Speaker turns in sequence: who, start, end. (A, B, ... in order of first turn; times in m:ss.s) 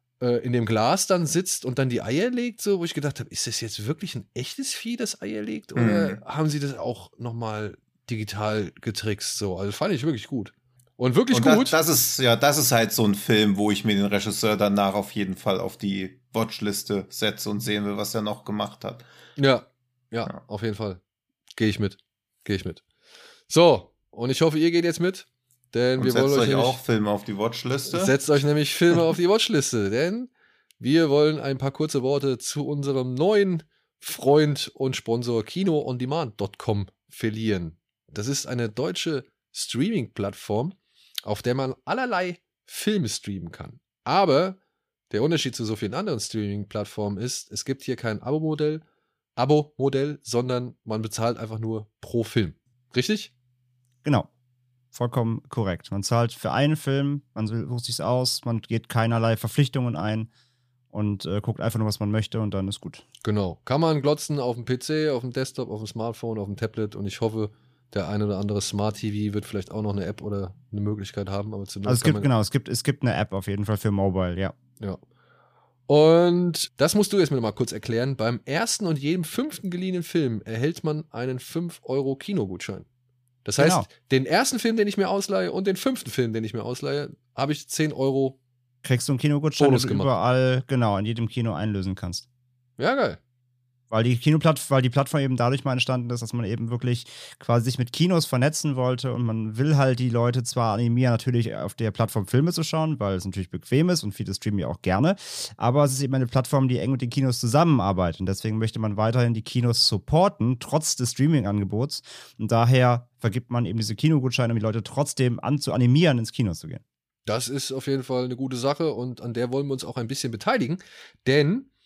0:00.2-0:11.8 A
0:05.8-0:06.2 B
0:11.3-0:19.0 B
0:19.4-0:21.0 A
0:21.6-0:22.8 A
0:23.5-0:26.8 A
0:26.0-0:28.2 B
0:27.9-0:44.6 A
0:45.1-0:48.8 A
0:49.4-0:53.3 A
0:54.9-1:00.3 C
1:00.9-1:03.0 C
1:03.2-1:12.3 A
1:11.9-1:14.5 C
1:15.9-1:22.9 A
1:23.4-1:28.4 A
1:23.6-1:23.9 C
1:28.8-1:32.2 C
1:29.6-1:30.1 A
1:32.8-1:33.2 A
1:33.9-1:56.8 C
1:57.3-2:01.7 A